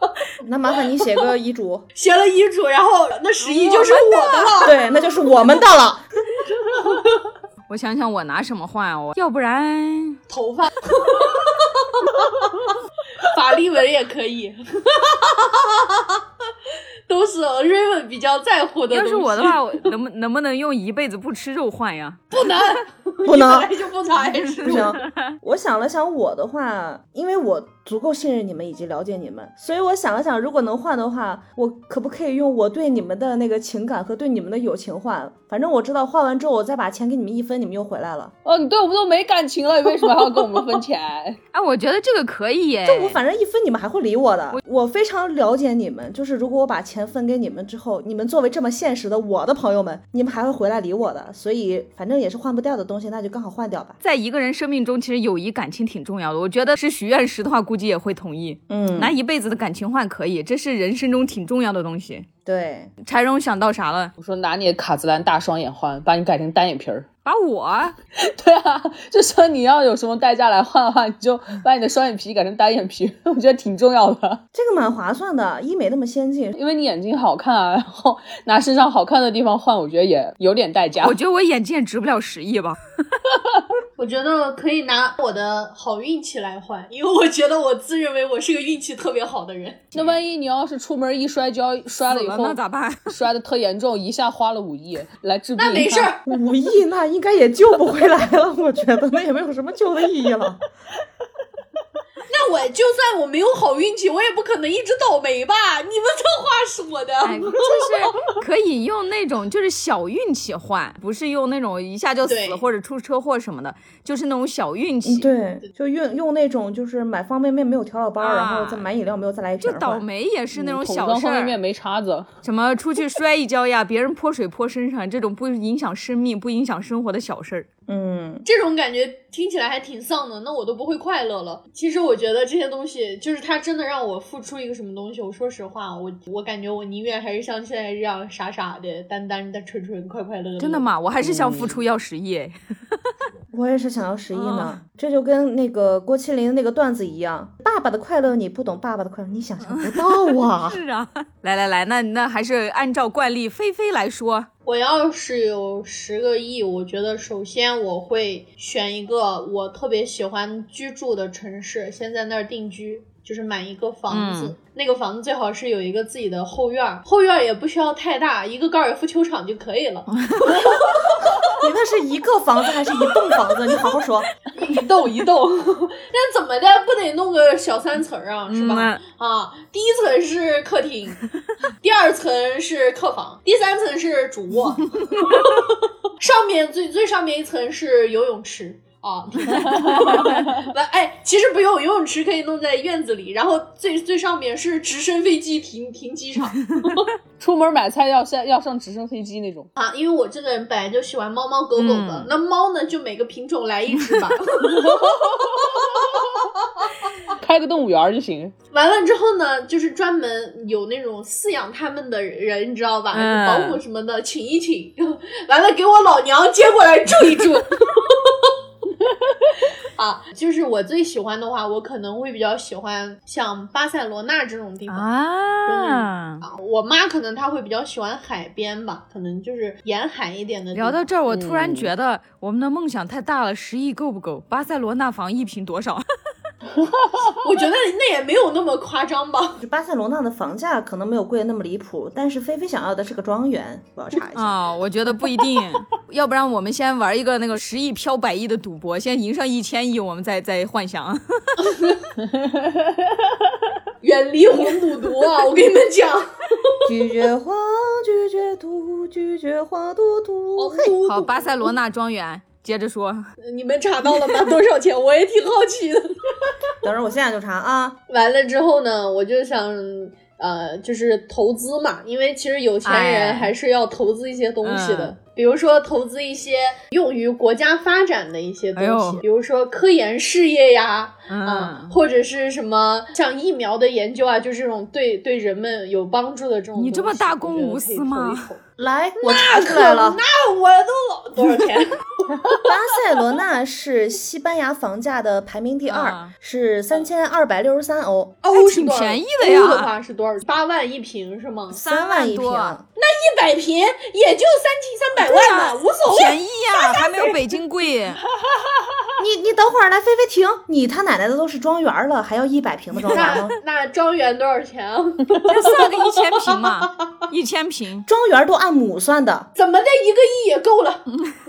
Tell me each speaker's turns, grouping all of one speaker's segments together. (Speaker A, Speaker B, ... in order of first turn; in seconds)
Speaker A: 0.4-1.9, 4.6-6.0, 23.2-23.7, 24.6-38.3, 42.9-54.0, 58.7-59.1, 62.5-62.9, 74.5-76.6, 96.2-100.6, 115.0-120.0, 127.9-128.4, 143.5-150.8, 171.4-174.3, 239.6-244.5, 256.9-260.9, 266.8-268.0, 288.8-290.2, 292.6-298.4, 301.8-302.8, 309.2-313.5, 318.1-319.5
Speaker B: 2.0-4.8, 10.3-12.7, 13.2-16.2, 17.1-19.6, 22.3-24.8, 84.0-89.9, 95.6-96.2, 102.3-107.9, 112.2-112.6, 128.4-140.9, 154.7-171.1, 174.5-181.2, 181.8-197.1, 199.8-206.9, 208.7-218.5, 219.4-225.1, 225.6-231.0, 237.4-239.6, 254.0-256.8, 260.6-261.7, 263.4-266.5, 268.1-288.6, 289.2-292.7, 298.4-301.8, 303.0-307.3, 313.1-316.9, 319.6-321.1
Speaker C: 3.4-4.6, 7.7-10.2, 18.9-22.2, 24.4-25.1, 41.5-43.2, 54.0-62.3, 63.0-64.1, 67.2-67.9, 81.0-82.8, 92.0-93.1, 107.2-115.3, 118.2-118.9, 119.6-121.6, 122.4-127.7, 140.6-143.0, 144.3-144.8, 149.6-154.5, 164.1-164.5, 170.2-170.6, 178.5-179.0, 201.8-202.3, 213.1-213.8, 224.9-226.4, 230.8-236.0, 244.3-251.8, 261.1-263.3, 272.8-273.5, 274.6-275.1, 278.8-279.2, 281.3-281.9, 286.8-288.4, 295.9-296.3, 298.5-299.9, 301.8-302.8, 305.2-308.2, 313.1-313.5, 315.5-318.1
Speaker D: 38.4-41.4, 64.2-67.0, 68.2-74.4, 76.5-81.2, 89.9-92.6, 93.1-96.1, 120.5-122.3, 141.2-141.8, 189.6-190.3, 197.4-199.7, 204.7-205.4, 207.3-208.5, 231.3-231.9